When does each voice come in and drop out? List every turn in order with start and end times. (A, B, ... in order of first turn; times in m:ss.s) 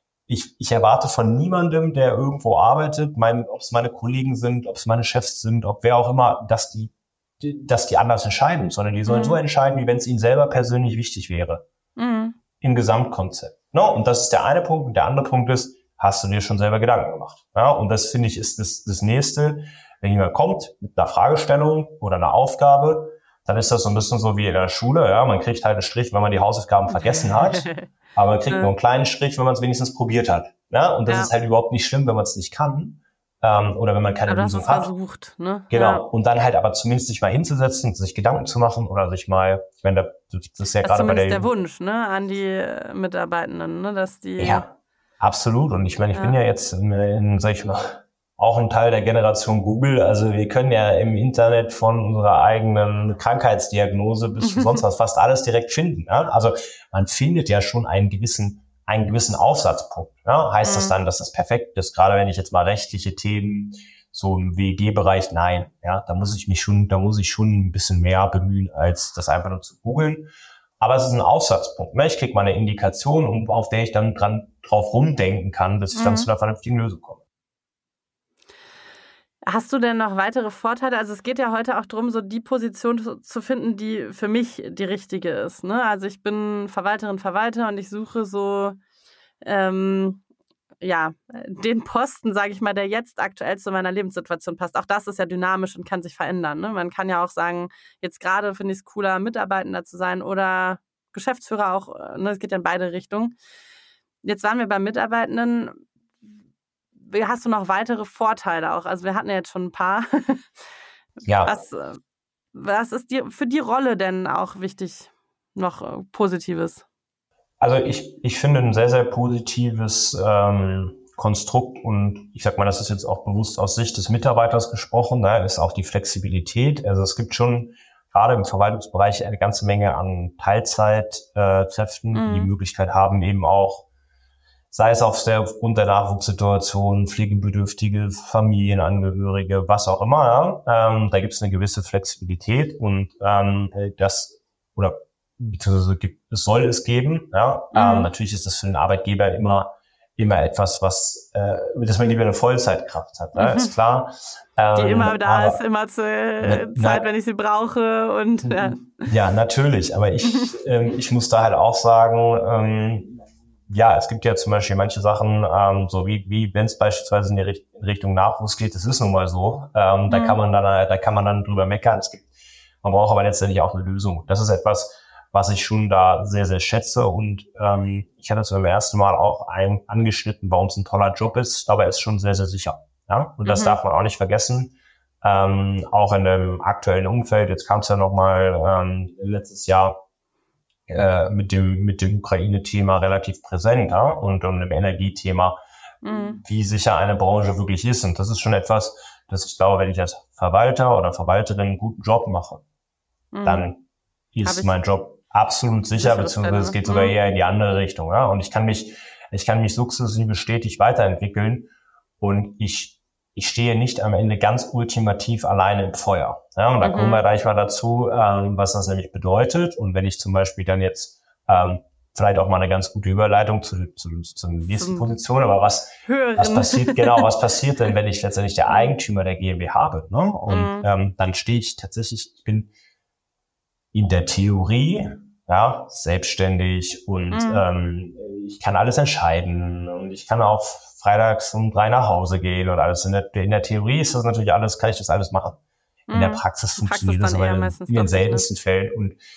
0:00.3-0:11.6 A
0:09.1-0:09.4 B
0:12.0-0:12.4 B
0:12.6-0:34.9 A
0:26.9-0:27.9 B
0:34.3-0:36.0 B
0:35.7-0:41.5 A
0:40.8-0:44.6 B
0:44.4-1:17.2 A
0:54.4-0:54.8 B
1:00.6-1:00.9 B
1:15.9-1:16.3 B
1:19.4-1:28.8 B
1:29.4-1:30.2 B
1:30.8-1:43.4 B
1:44.2-1:45.8 B
1:47.1-1:50.5 B
1:51.2-1:51.6 A
1:51.4-1:52.0 B
1:52.5-1:56.8 B
1:57.6-2:13.8 A
2:12.1-2:12.5 B
2:14.7-2:35.6 A
2:27.7-2:28.1 B
2:33.4-2:33.7 B
2:34.7-2:39.1 B
2:36.4-2:37.0 A
2:38.4-2:52.3 A
2:40.2-2:40.5 B
2:50.1-2:50.4 B
2:52.8-3:10.0 A
3:03.4-3:03.8 B
3:10.9-3:15.6 A
3:16.0-3:16.4 B
3:16.1-3:22.6 A
3:23.3-3:23.7 B
3:23.4-3:23.8 A
3:24.3-3:52.7 A
3:24.4-3:24.7 B
3:26.0-3:27.1 B
3:36.8-3:37.2 B
3:44.7-3:45.1 B
3:46.0-3:47.2 B
3:50.5-3:50.9 B
3:53.9-4:05.6 A
3:57.3-3:57.6 B
4:06.1-4:08.5 B
4:06.1-4:09.2 A